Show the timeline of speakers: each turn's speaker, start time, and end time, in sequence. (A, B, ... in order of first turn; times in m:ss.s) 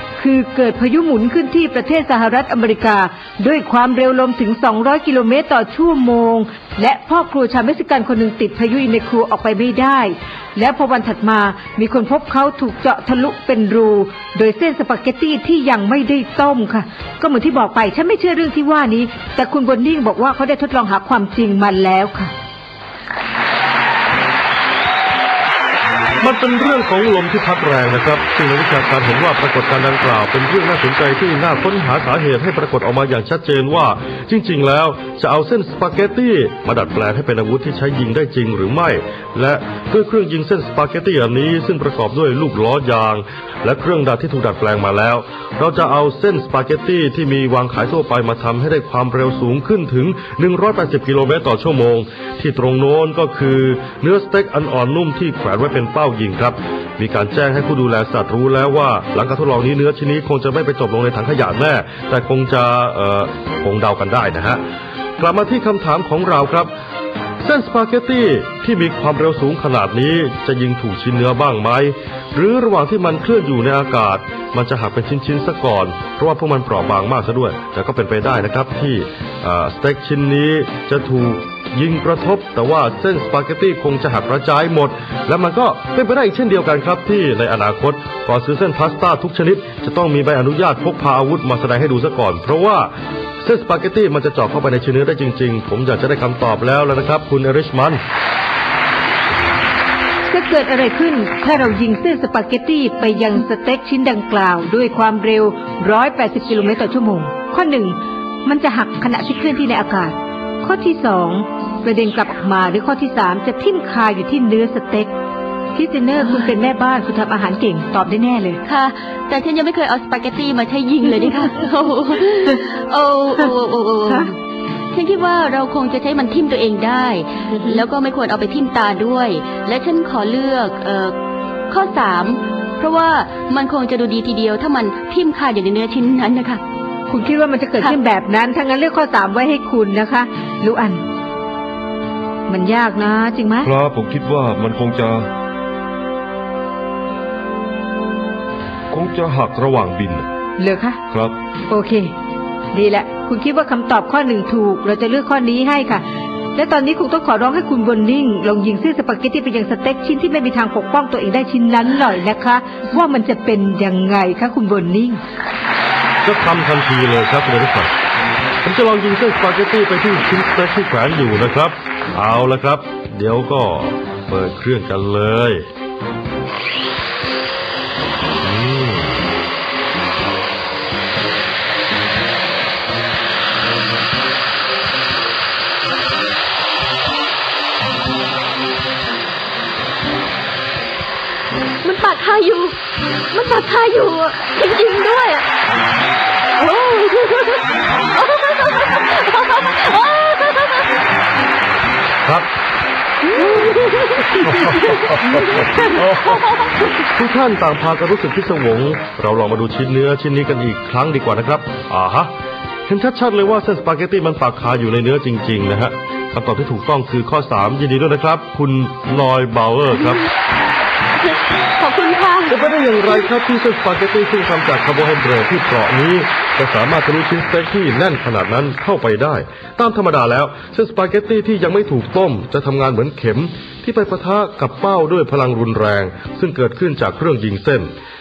0:00.2-0:22.3 A
0:26.2-1:04.6 B
1:05.2-1:06.7 B
1:07.4-1:32.9 B
1:33.4-1:38.0 B
1:40.3-1:55.1 A
1:55.8-1:58.6 A
1:58.6-2:04.4 C
2:04.9-2:11.2 C
2:11.7-2:16.6 C
2:17.1-2:21.0 A
2:22.5-2:23.7 A
2:23.6-2:25.3 D
2:28.9-2:30.3 D
2:30.6-2:31.0 A
2:31.7-2:32.1 A
2:32.7-2:36.0 A
2:36.6-2:45.2 A
2:46.2-2:47.9 B
2:48.6-2:55.7 B
2:58.4-2:59.3 B
3:11.8-3:12.8 C
3:13.3-3:15.5 C
3:16.6-3:20.9 C
3:22.2-3:22.5 B
3:23.3-3:26.4 C
3:27.1-3:32.3 B
3:32.9-3:40.3 B
3:41.3-3:42.6 C
3:42.5-3:57.9 B